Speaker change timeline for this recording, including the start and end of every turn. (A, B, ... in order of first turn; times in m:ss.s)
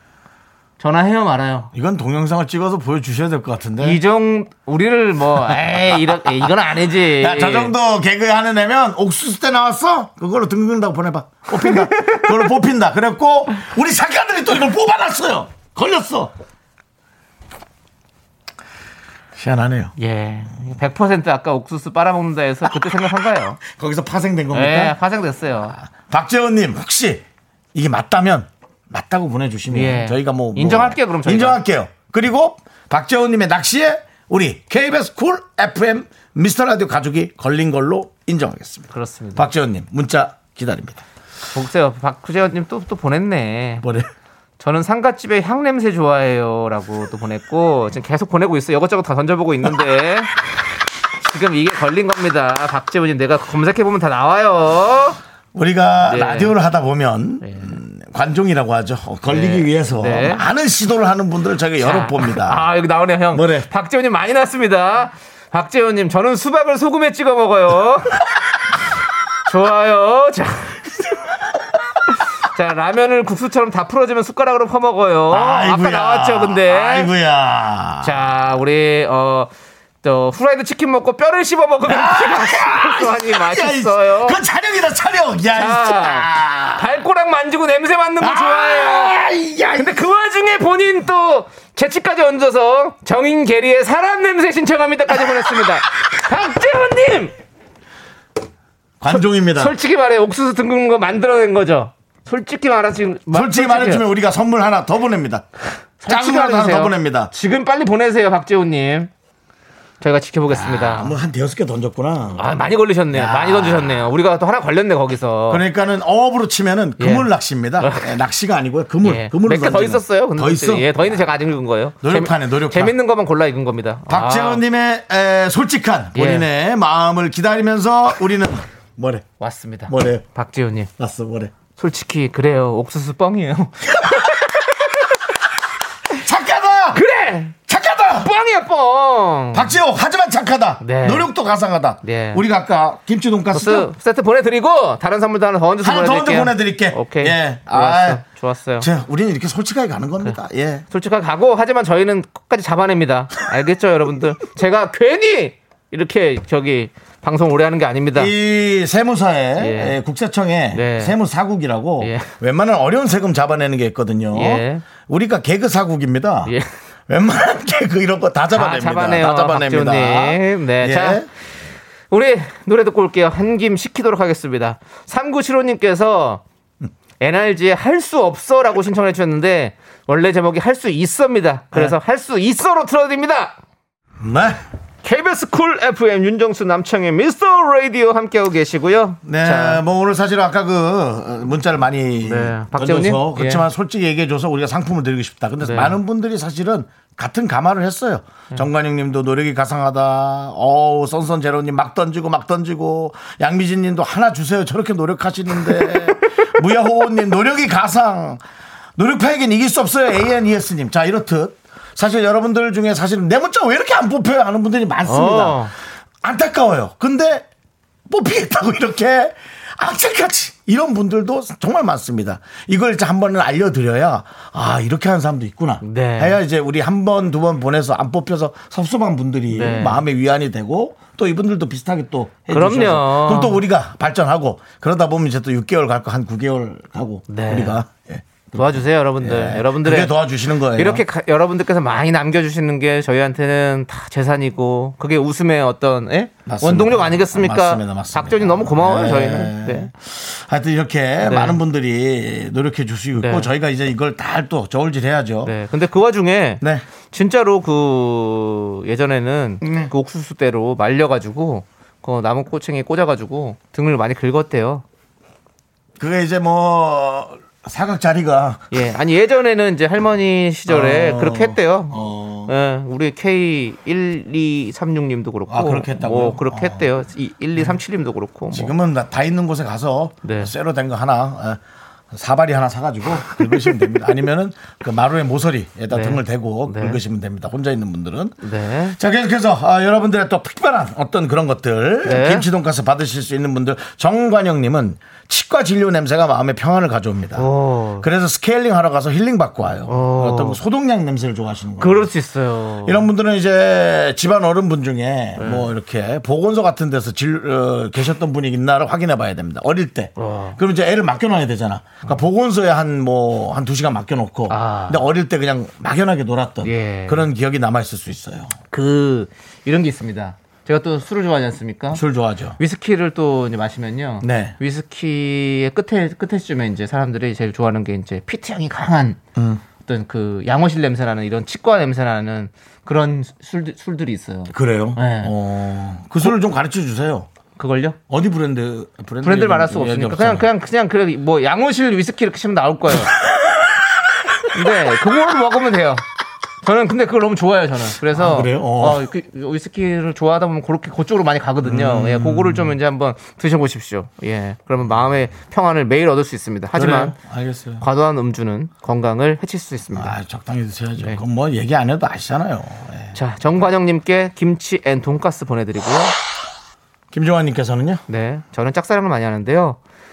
0:00.8-0:01.7 A
0:01.7-0:04.0 B
0:03.8-0:07.7 A
0:05.5-0:16.3 B
0:19.4-0:19.9 B
0:20.0-0:23.6 A
0:23.7-0:25.0 B
0:24.5-0:25.8 A
0:25.8-0:41.0 B
0:29.7-0:31.6 A
0:38.9-0:39.5 A
0:41.5-0:43.8 A
0:43.8-0:44.1 B
0:44.6-0:50.4 A
0:51.2-0:55.2 A
0:55.5-1:02.7 B
0:56.0-0:56.5 A
0:57.4-0:57.7 A
0:59.3-1:00.4 A
1:01.8-1:08.3 A
1:03.3-1:03.7 B
1:09.4-1:10.9 A
1:12.4-1:17.1 A
1:15.3-1:18.2 B
1:18.0-1:19.5 A
1:20.0-1:24.4 A
1:21.9-1:26.9 B
1:25.6-1:29.2 A
1:28.2-1:30.0 B
1:29.8-1:37.3 A
1:39.0-1:39.7 B
1:39.1-1:44.0 A
1:43.3-1:45.5 B
1:46.0-1:49.1 A
1:46.0-1:47.3 B
1:50.0-1:51.2 A
1:50.5-1:52.4 B
1:52.4-1:55.6 A
1:53.1-1:54.1 B
1:55.5-2:01.2 B
1:57.0-1:57.3 A
1:57.8-1:58.1 A
1:59.0-2:04.6 A
2:02.0-2:03.0 B
2:04.1-2:09.3 B
2:06.2-2:06.5 A
2:09.4-2:10.9 A
2:09.9-2:10.2 B
2:11.0-2:11.5 B
2:11.8-2:15.2 A
2:16.1-2:17.0 B
2:16.9-2:17.6 A
2:17.7-2:18.3 B
2:18.2-2:19.8 A
2:19.5-2:23.9 B
2:20.8-2:21.3 A
2:22.0-2:22.4 A
2:23.5-2:28.9 A
2:25.8-2:28.2 B
2:28.8-2:30.8 B
2:30.9-2:38.3 A
2:38.2-2:46.5 B
2:39.6-2:40.0 A
2:40.7-2:41.2 A
2:42.0-2:42.3 A
2:44.3-2:44.8 A
2:47.1-2:51.3 B
2:48.5-2:51.3 A
2:52.1-2:56.4 A
2:57.2-3:03.6 A
3:04.2-3:04.6 B
3:05.0-3:09.8 A
3:09.2-3:28.4 B
3:12.2-3:13.7 A
3:15.6-3:16.0 A
3:29.0-3:35.7 B
3:35.1-3:35.7 A
3:36.2-3:37.5 B
3:38.1-4:01.0 B
3:45.8-3:46.4 A
3:49.5-3:50.0 A
3:52.5-3:53.6 A
3:57.3-3:57.8 A
3:58.5-4:09.9 A
4:06.5-4:15.5 B
4:11.2-4:11.6 A
4:13.2-4:13.5 A
4:15.4-4:24.8 A
4:19.6-4:19.9 B
4:26.0-4:28.7 B
4:28.7-4:38.7 A
4:30.7-4:32.5 B
4:35.5-4:36.9 B
4:38.5-4:41.6 B
4:40.2-4:40.5 A
4:42.1-4:48.4 B
4:43.4-4:43.8 A
4:45.9-4:47.0 A
4:48.4-4:49.0 A
4:48.9-4:57.5 B
4:52.0-4:52.5 A
4:57.4-4:58.1 A
4:58.0-5:02.1 B
4:59.9-5:00.6 A
5:01.8-5:03.1 A
5:02.8-5:18.6 B
5:05.4-5:05.7 A
5:10.2-5:10.6 A
5:14.5-5:15.0 A
5:16.6-5:17.3 A
5:18.7-5:22.0 A
5:21.9-5:22.6 B
5:22.6-5:29.2 A
5:24.2-5:24.6 B
5:29.4-5:29.6 B
5:29.8-5:35.3 A
5:34.5-5:37.3 B
5:37.6-5:38.0 A
5:38.1-5:40.5 B
5:39.2-5:43.2 A
5:43.3-5:43.6 B
5:44.5-5:46.0 A
5:46.6-5:57.2 A
5:48.1-5:49.0 B
5:51.6-5:52.8 B
5:56.8-5:57.8 B
5:57.8-6:00.2 A
5:59.9-6:03.2 B
6:03.1-6:06.2 A
6:07.1-6:08.0 B
6:08.1-6:09.8 A